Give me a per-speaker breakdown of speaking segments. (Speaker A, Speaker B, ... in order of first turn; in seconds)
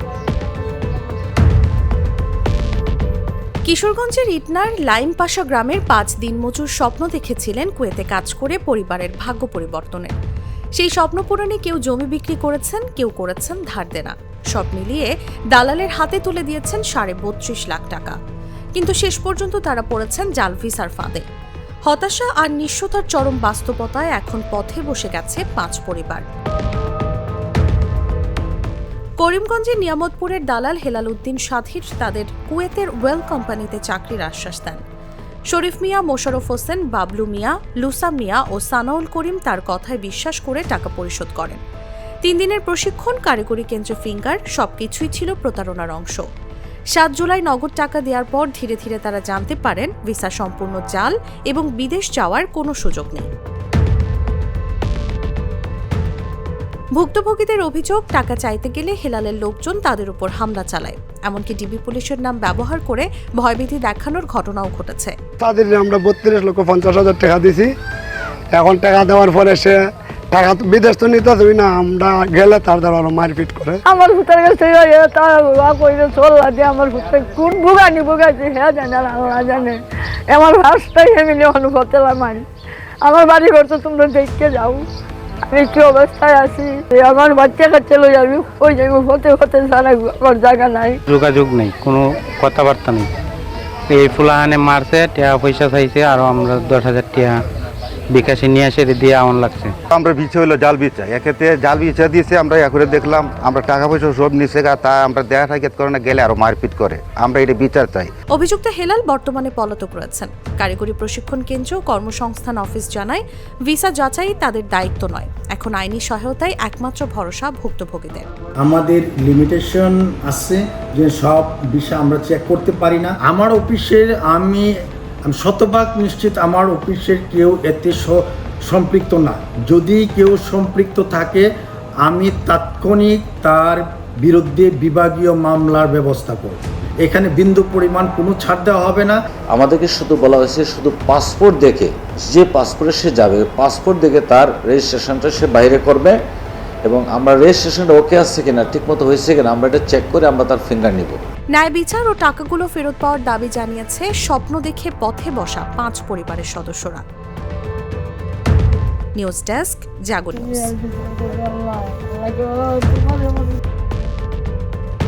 Speaker A: 3.6-10.1, 10.8-18.1, 18.7-21.2, 21.9-26.2, 29.2-34.8, 35.5-41.6, 42.2-46.2, 46.9-53.3, 57.0-65.1, 108.3-118.3, 151.5-157.0, 159.2-160.8
Speaker B: 65.4-67.7, 68.5-69.8, 70.3-73.8
Speaker C: 73.9-82.4, 83.0-84.8, 85.5-91.0, 160.6-163.5
Speaker D: 91.1-93.1, 93.9-97.4, 98.1-99.7
Speaker E: 99.9-108.1
Speaker F: 118.6-124.7, 125.2-131.4, 132.0-139.2
Speaker G: 139.5-146.2, 146.8-151.2